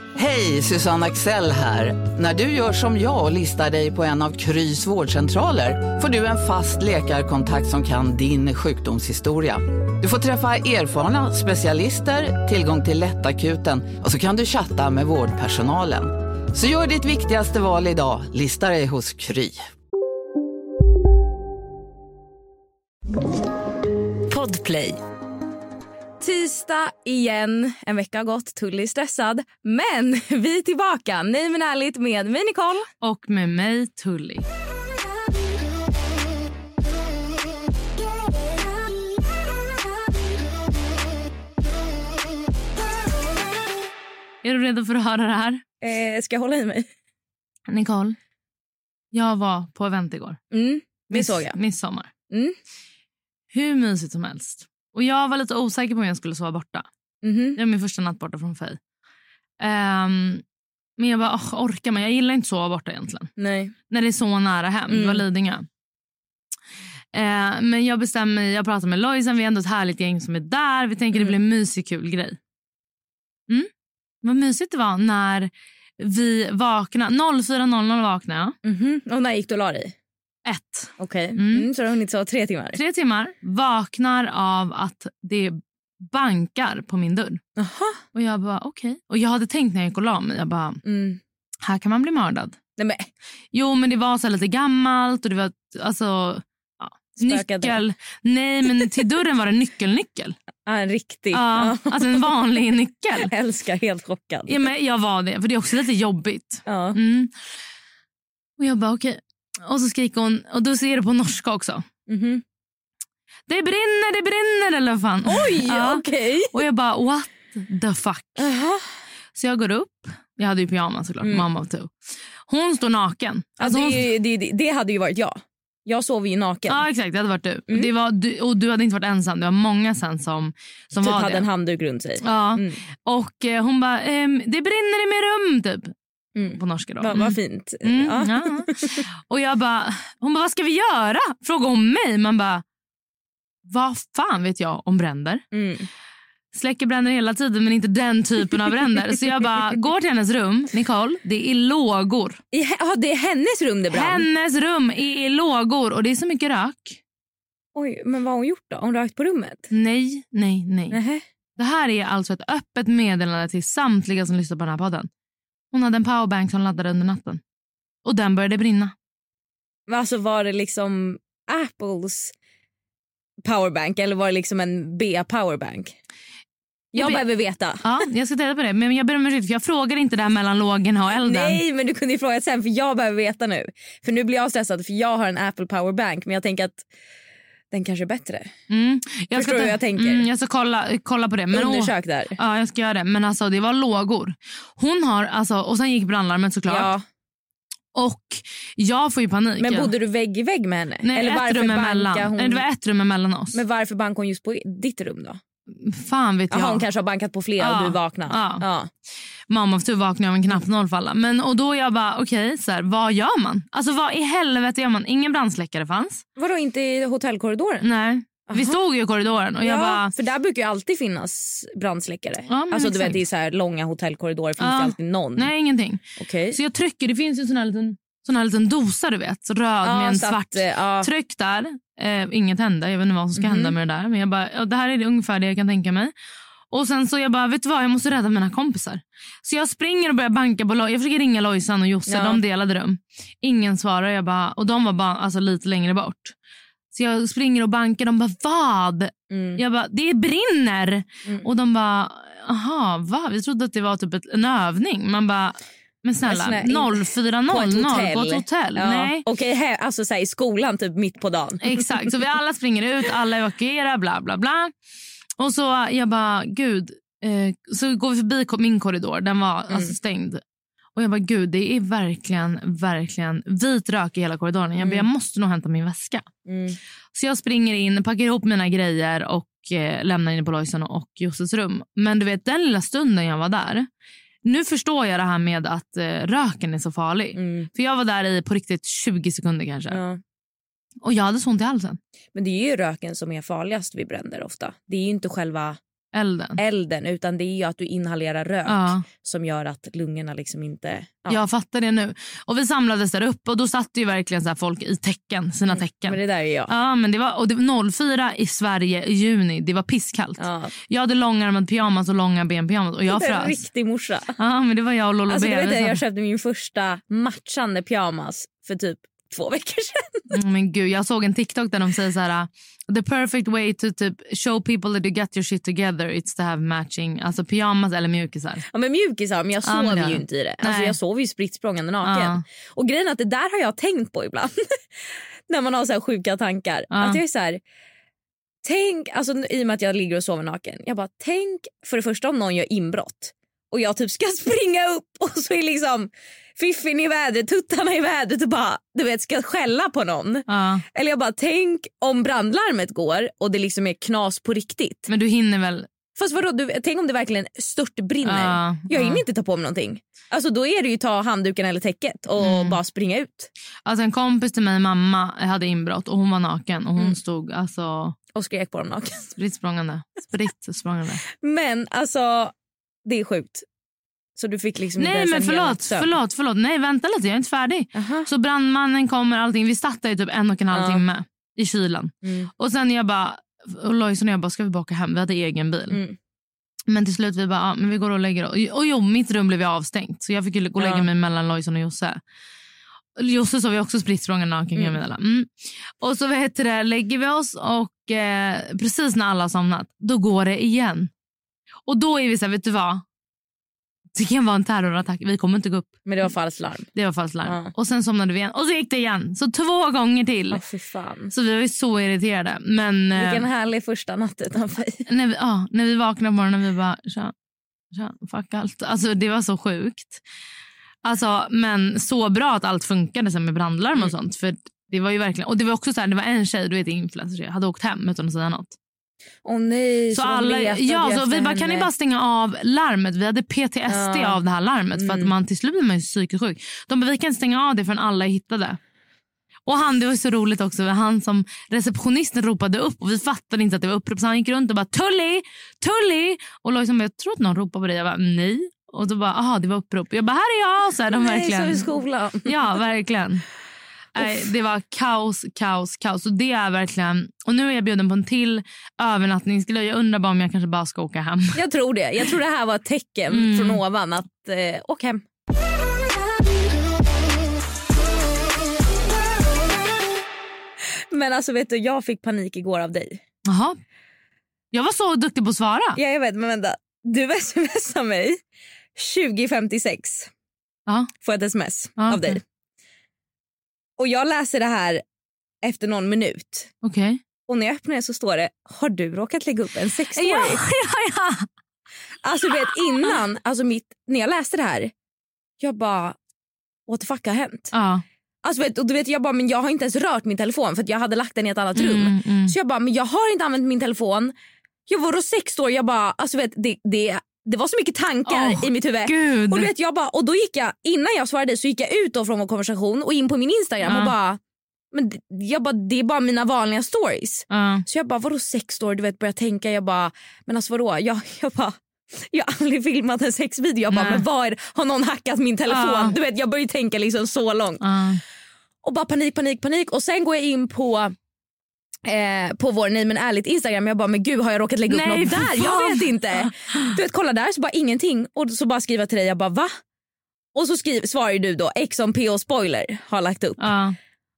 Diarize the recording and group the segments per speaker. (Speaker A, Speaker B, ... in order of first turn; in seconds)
Speaker A: 0.2-19.6
Speaker B: 24.3-25.0, 26.2-32.9, 45.8-46.9, 50.5-51.6, 52.3-52.6, 57.2-57.6, 63.4-63.7, 64.9-65.2, 78.6-79.9, 81.0-82.8, 87.6-88.0, 90.8-91.2, 92.8-93.1, 97.2-97.8, 100.7-102.3, 103.2-104.6, 106.7-107.0, 112.1-112.4, 115.3-116.6, 118.4-118.8, 123.6-126.8, 131.0-132.8, 136.4-139.1, 145.5-145.9, 152.5-154.2, 157.8-159.7, 160.9-161.2, 169.9-172.3, 173.4-175.9, 176.9-177.9, 181.2-186.8, 187.7-188.5, 189.3-190.2, 191.5-192.4, 196.7-197.0, 199.6-202.6, 203.5-205.4, 206.5-208.9, 216.4-217.9, 218.5-218.8, 219.6-225.5, 226.2-226.6, 229.8-231.1, 233.4-233.7, 242.1-242.4, 249.3-249.6, 256.2-261.9, 274.8-275.1, 276.5-276.8, 287.4-287.7, 289.9-290.2, 292.4-295.8, 296.6-301.4, 305.7-306.7, 310.4-310.7, 313.1-314.4, 315.3-320.2, 328.7-334.6, 335.5-337.6, 338.6-355.1, 356.2-363.5, 368.4-369.3, 371.3-372.5, 373.1-373.6, 374.4-376.1, 377.9-378.3, 380.7-381.0, 382.2-382.5, 385.9-386.2, 390.8-391.1, 406.1-406.9, 407.5-407.7, 410.5-411.3, 413.1-415.0, 429.4-431.9, 433.9-434.4, 434.9-435.3, 451.2-452.5, 461.6-465.2, 471.1-473.2, 476.0-478.4, 479.0-480.3, 481.2-482.4, 484.0-485.0, 485.6-486.7, 487.5-490.6, 492.2-494.9, 495.6-496.2, 496.9-497.7, 498.4-504.3, 504.9-514.4, 514.9-527.8, 528.8-531.1, 532.0-539.7, 540.5-543.7
Speaker C: 33.0-34.5, 44.4-45.6, 47.7-48.2, 49.1-50.4, 51.1-52.1, 53.5-56.9, 57.6-58.8, 59.6-60.4, 61.0-63.3, 63.9-65.7, 67.1-72.4, 74.2-78.6, 80.5-81.7, 82.8-87.4, 88.1-90.8, 91.6-92.6, 93.5-100.4, 101.3-103.3, 104.5-107.3, 108.6-111.8, 113.5-118.4, 119.3-121.9, 122.5-124.0, 126.7-131.4, 132.2-135.9, 136.5-138.7, 139.3-142.6, 143.7-145.4, 146.5-152.4, 153.9-157.0, 159.7-161.0, 161.6-165.1, 165.7-167.4, 168.1-168.9, 176.9-177.2, 177.8-181.6, 188.7-196.9, 197.9-199.9, 201.0-203.6, 205.8-206.9, 207.6-208.6, 209.5-216.2, 217.8-220.1, 222.5-223.2, 224.6-226.0, 226.5-236.1, 236.7-246.3, 246.9-259.2, 261.6-264.7, 265.4-270.4, 270.9-276.2, 277.1-283.9, 284.4-290.0, 291.0-292.0, 296.1-296.6, 298.7-299.1, 301.3-313.6, 314.4-316.0, 320.3-328.7, 329.6-331.0, 332.0-332.4, 336.9-337.2, 350.5-350.9, 355.1-355.9, 358.2-359.2, 362.4-362.8, 363.9-368.2, 369.4-371.2, 375.0-386.0, 386.9-392.2, 393.2-395.5, 396.0-401.1, 401.9-403.0, 404.2-406.0, 406.9-410.6, 411.3-413.5, 415.1-417.3, 417.9-420.2, 421.0-428.8, 430.1-438.8, 439.7-451.9, 452.4-453.4, 454.1-461.6, 463.3-463.8, 473.5-473.8, 474.7-476.0, 482.0-482.4, 486.8-487.2, 490.1-491.5, 492.9-493.2, 497.7-498.0, 501.8-502.6, 508.3-509.7, 513.8-514.1, 517.5-517.9, 523.9-524.2, 525.7-526.1, 527.8-528.2, 534.9-536.9, 543.6-544.0